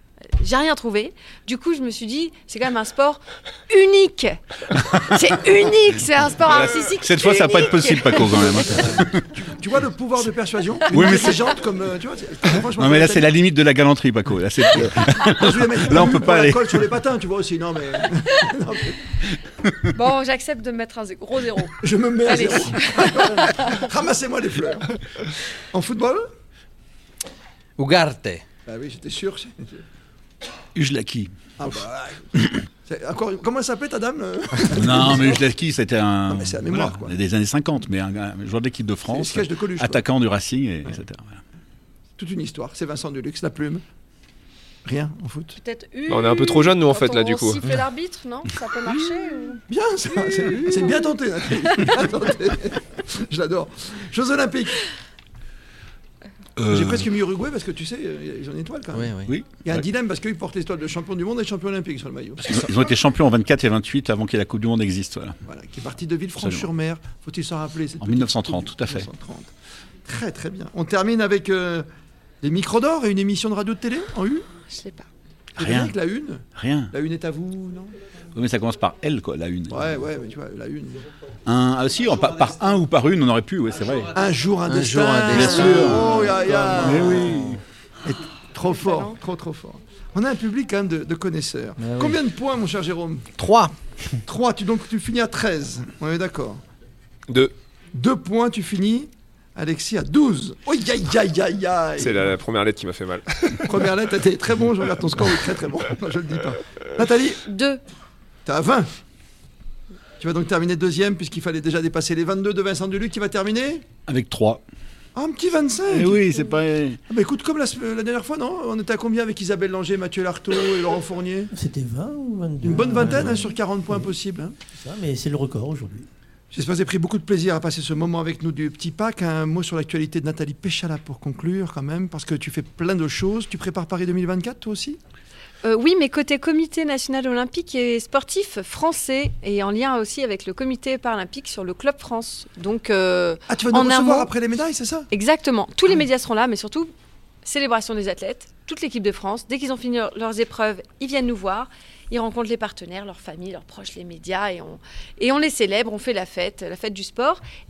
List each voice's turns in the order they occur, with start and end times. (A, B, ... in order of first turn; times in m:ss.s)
0:00.4-0:09.0 A
0:06.9-0:09.3 B
0:09.3-0:13.3 C
0:10.9-0:11.4 B
0:12.7-0:16.9 B
0:15.0-0:19.2 C
0:19.6-0:19.9 B
0:19.9-0:23.8 A
0:21.8-0:26.3 C
0:27.8-0:28.4 D
0:28.6-0:29.8 C
0:30.7-0:31.3 B
0:31.6-0:35.4 C
0:34.7-0:41.4 B
0:36.3-0:37.1 C
0:39.1-0:40.0 C
0:42.2-0:43.8 C
0:44.8-0:45.6 C
0:45.6-0:49.6 A
0:46.1-0:47.6 E
0:49.7-0:54.8 C
0:50.2-0:51.9 A
0:56.6-0:57.1 B
0:56.7-1:03.0 C
0:58.9-0:59.3 D
0:59.3-0:59.8 B
1:02.4-1:05.4 B
1:05.4-1:09.5 C
1:06.4-1:06.7 B
1:08.0-1:09.1 B
1:10.0-1:11.9 C
1:12.4-1:14.4 C
1:14.7-1:15.1 A
1:15.5-1:17.9 C
1:15.6-1:16.0 B
1:16.5-1:16.9 B
1:18.3-1:20.0 B
1:19.7-1:21.0 C
1:21.4-1:24.1 B
1:24.1-1:27.3 C
1:24.7-1:27.6 D
1:25.3-1:27.6 B
1:28.0-1:33.3 C
1:28.8-1:29.2 A
1:31.8-1:32.2 D
1:33.4-1:33.7 D
1:34.2-1:36.6 C
1:37.9-1:42.3 C
1:42.0-1:43.8 E
1:43.7-1:47.4 C
1:47.4-1:47.8 A
1:48.4-1:48.9 C
1:50.2-1:53.8 C
1:54.1-1:54.6 B
1:55.1-1:56.3 C
1:55.9-1:57.0 B
1:57.1-2:01.5 C
2:01.5-2:04.1 F
2:02.6-2:04.6 C
2:04.6-2:06.0 F
2:06.5-2:15.0 C
2:15.6-2:24.3 A
2:23.5-2:25.1 C
2:25.1-2:26.9 A
2:27.4-2:37.4 A